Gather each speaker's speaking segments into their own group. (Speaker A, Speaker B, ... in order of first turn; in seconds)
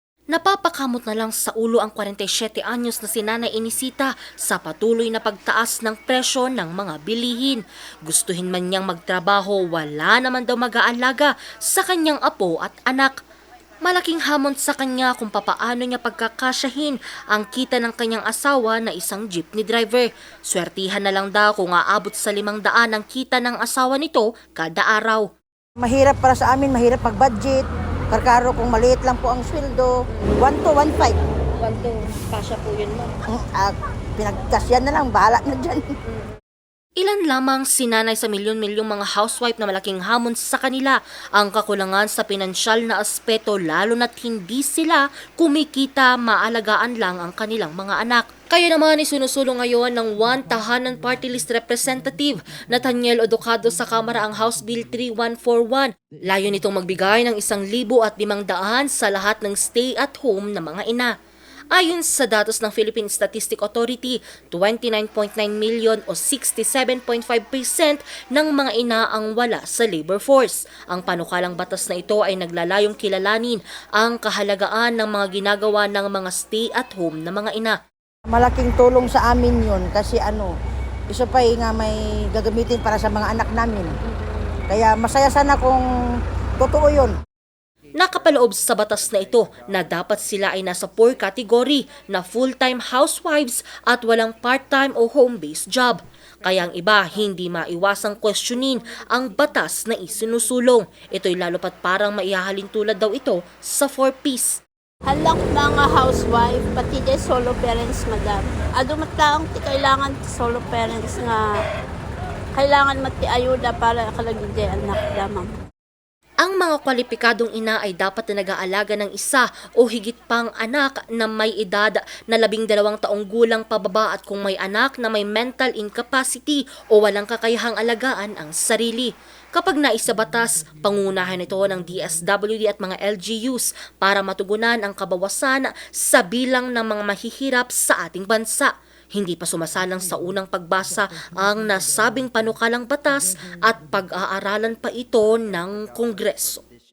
Speaker A: 0.3-13.2, 13.8-25.3, 30.1-30.5, 31.6-33.1, 36.0-36.4, 37.0-61.1, 61.7-77.8, 88.0-104.6, 116.4-146.7
Speaker B: 25.8-29.9, 30.4-31.2, 33.3-35.8, 78.3-80.5, 81.1-83.9, 84.7-85.8, 86.6-87.1
Speaker C: 105.1-111.4, 112.6-115.5